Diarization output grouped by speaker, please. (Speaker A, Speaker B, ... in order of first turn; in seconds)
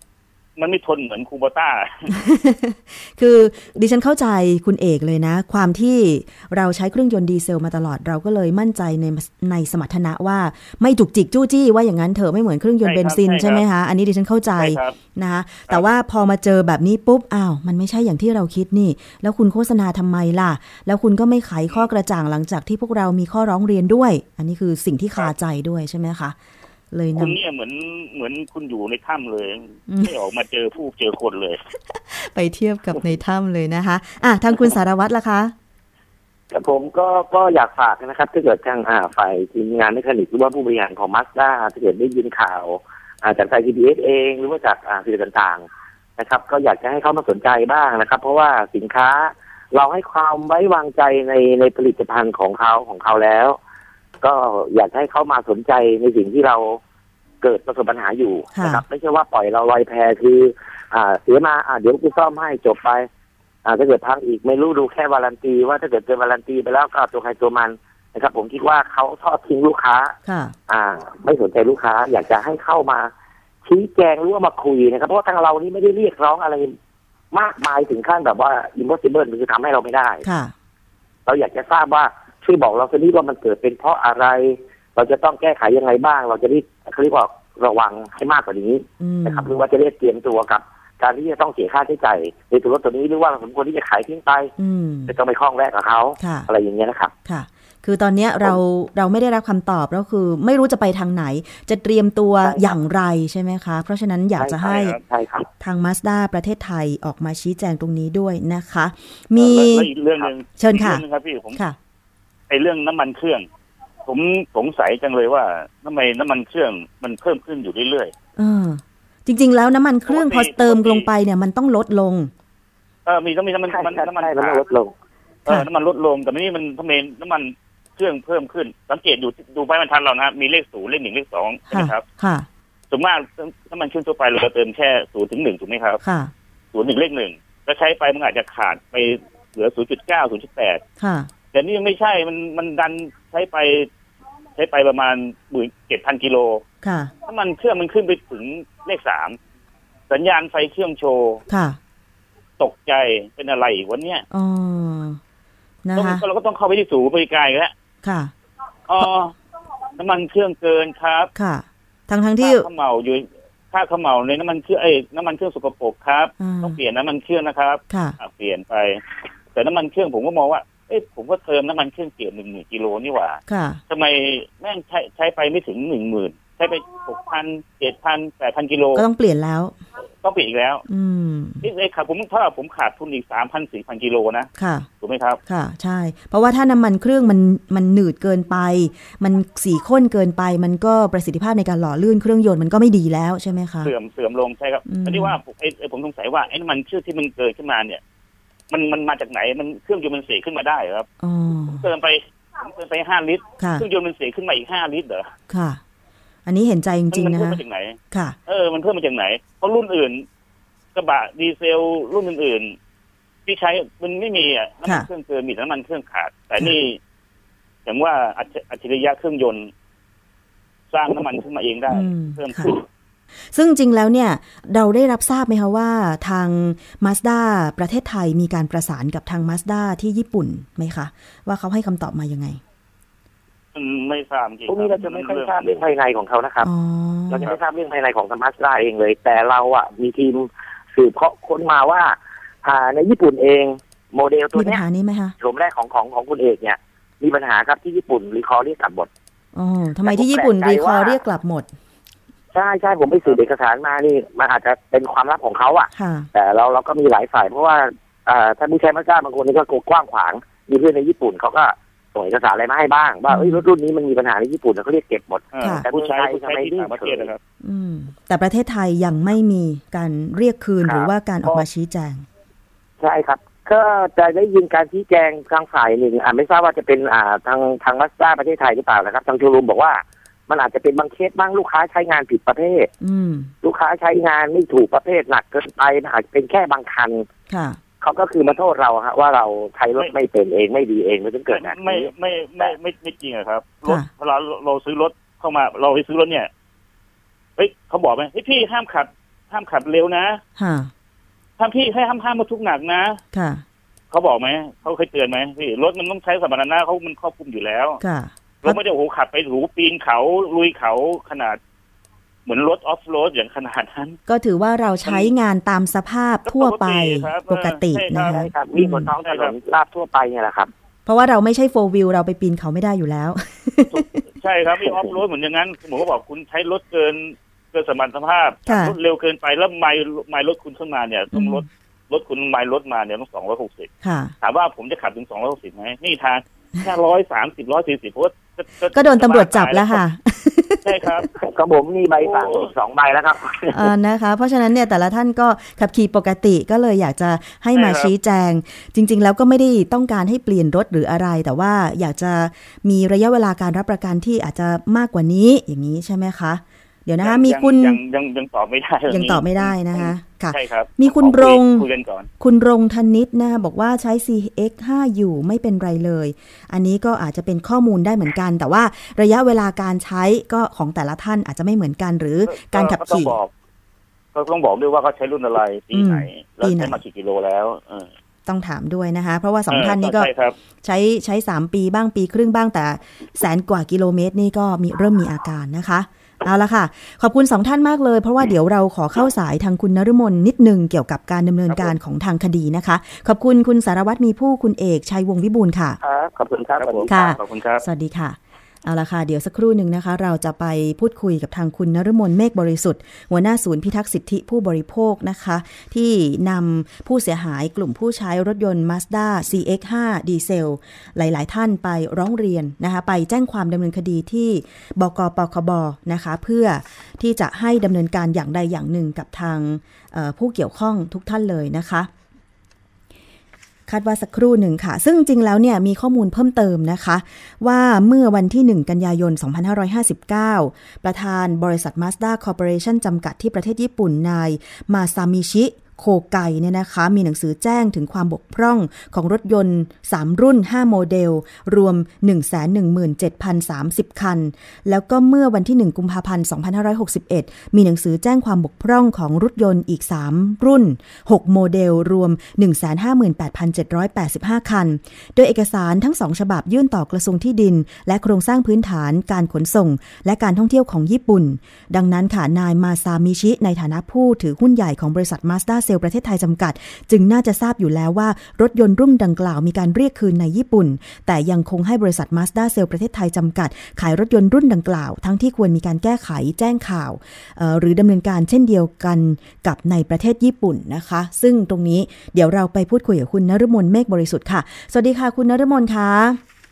Speaker A: 0.6-2.1, 12.8-13.6, 14.6-15.0, 27.1-31.6, 109.4-111.6, 112.5-113.5, 114.1-118.1, 120.1-121.1, 123.1-124.7, 125.5-132.0, 132.9-136.0, 136.7-140.8, 141.5-143.9, 144.6-146.6, 147.2-149.4, 150.1-151.4, 152.6-154.2, 155.9-157.7, 158.9-159.4, 160.0-161.3, 162.4-169.0, 169.5-179.1, 180.2-180.8, 181.6-184.5, 185.0-185.4, 193.8-198.0, 198.7-201.1, 201.7-205.3, 207.1-210.2, 210.9-212.8, 213.4-217.0, 217.8-219.7, 220.9-222.8, 233.7-235.8, 265.5-267.4, 291.5-296.5, 297.6-300.4, 301.6-303.2, 304.1-308.0, 308.6-311.6, 312.4-314.2, 315.1-315.3, 316.4-318.5, 319.2-319.6, 323.9-333.9, 334.4-340.0, 340.8-341.3, 342.2-342.7, 347.7-348.1, 357.2-362.3, 372.4-373.5, 374.3-378.1, 379.7-380.6, 391.7-391.9, 396.7-397.9
Speaker B: 2.1-26.4, 26.9-27.4, 29.9-30.1, 31.9-35.5, 58.5-58.8, 70.2-70.5, 80.2-80.5, 89.0-89.5, 94.6-95.1, 96.2-96.5, 97.2-105.0, 105.6-109.9, 110.6-111.0, 118.4-122.3, 131.7-132.5, 136.0-136.3, 141.0-141.3, 146.8-147.1, 151.5-151.8, 154.3-155.2, 155.8-156.2, 158.0-158.3, 161.3-162.7, 166.4-166.8, 167.9-168.2, 173.5-173.8, 178.9-179.8, 180.9-181.7, 184.6-184.9, 185.4-193.9, 194.9-195.4, 201.2-201.9, 203.6-203.9, 205.5-205.8, 206.4-208.4, 221.9-222.7, 223.5-232.6, 236.6-237.5, 244.5-245.3, 249.5-251.7, 255.9-256.3, 263.3-263.6, 267.6-272.2, 283.0-283.5, 287.5-287.8, 300.6-300.9, 303.3-303.6, 308.0-308.8, 314.3-319.1, 321.1-324.2, 328.7-328.9, 331.3-331.6, 334.0-334.3, 338.9-341.3, 343.7-358.0, 359.1-361.9, 362.4-373.4, 375.9-377.0, 378.4-380.3, 380.8-396.0, 397.1-422.1, 423.9-486.4
Speaker C: 36.5-45.6, 46.2-53.6, 54.2-56.8, 57.4-63.1, 63.6-70.2, 70.7-73.1, 73.6-76.7, 77.3-80.2, 81.2-94.5, 95.1-97.1, 102.4-102.8, 104.4-105.5, 123.7-124.9, 234.7-236.7, 237.3-244.8, 245.4-249.1, 250.1-251.2, 252.5-267.3, 270.8-271.6, 273.0-282.9, 283.6-287.2, 288.0-292.7, 318.3-320.7, 341.4-343.9, 396.0-397.4